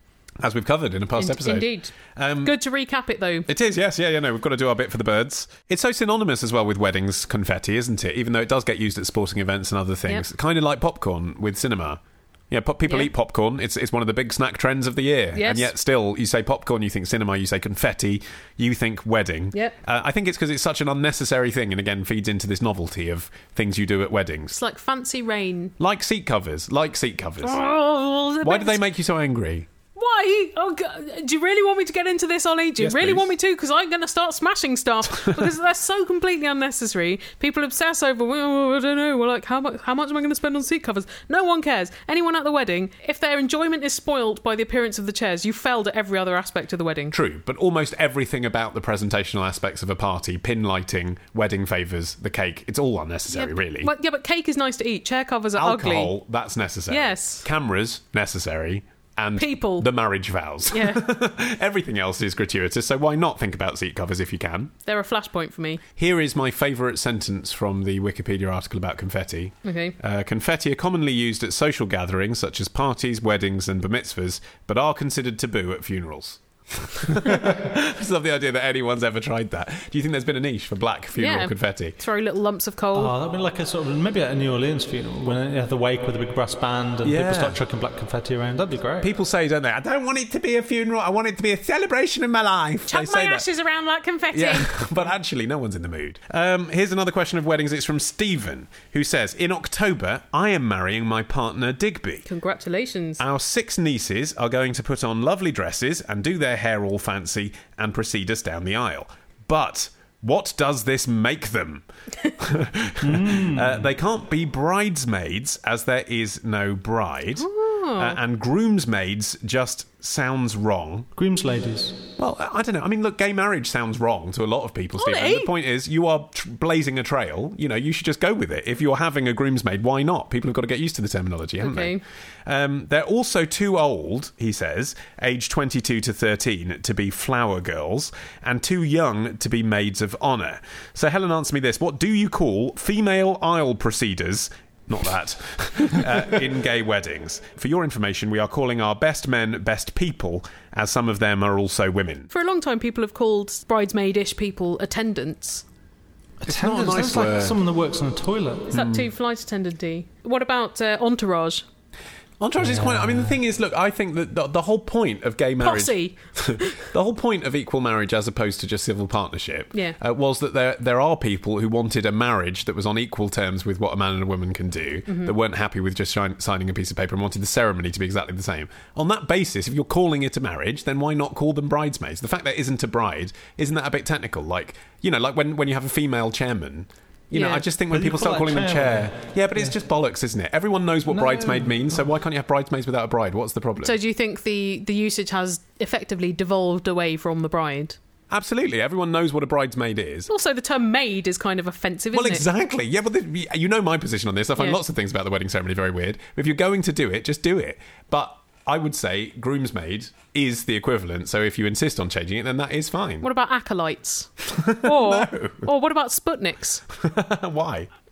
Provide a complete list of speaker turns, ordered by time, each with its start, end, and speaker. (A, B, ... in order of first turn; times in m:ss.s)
0:00.4-0:02.6 A
0:01.2-0:03.5 B
0:03.5-0:24.6 A
0:12.8-0:13.1 B
0:15.3-0:15.7 B
0:24.5-0:25.7 B
0:25.8-0:27.6 A
0:27.4-0:28.8 B
0:28.4-0:29.7 A
0:29.9-0:47.1 B
0:32.8-0:33.3 A
0:47.1-0:53.9 A
0:53.3-0:56.1 B
0:55.6-1:04.7 A
0:56.9-0:57.4 B
0:59.4-0:59.9 B
1:00.7-1:01.0 B
1:04.8-1:05.8 B
1:06.0-1:22.0 A
1:09.6-1:10.0 B
1:21.2-1:23.1 B
1:22.9-1:29.1 C
1:27.0-1:27.6 A
1:29.0-1:33.4 A
1:32.9-1:34.8 B
1:34.3-1:42.2 A
1:42.2-1:43.2 B
1:43.2-1:51.8 A
1:52.4-1:57.5 A
1:53.0-1:53.9 C
1:57.4-1:58.2 B
1:58.0-2:01.1 A
2:01.2-2:02.1 C
2:02.2-2:32.3 A
2:05.0-2:05.5 B
2:11.6-2:12.0 B
2:32.3-2:35.6 B
2:36.4-2:38.7 C
2:36.4-2:37.6 A
2:38.7-2:41.6 B
2:38.7-2:39.0 A
2:42.4-3:14.0 A
2:42.6-2:43.4 C
2:45.6-2:46.8 B
2:55.1-2:55.3 B
3:07.3-3:07.6 B
3:07.9-3:09.8 C
3:11.1-3:12.0 C
3:13.8-3:18.0 B
3:18.3-3:20.3 A
3:20.3-3:22.4 B
3:22.1-3:33.3 A
3:33.2-3:36.8 B
3:34.5-3:35.7 A
3:37.0-3:37.9 A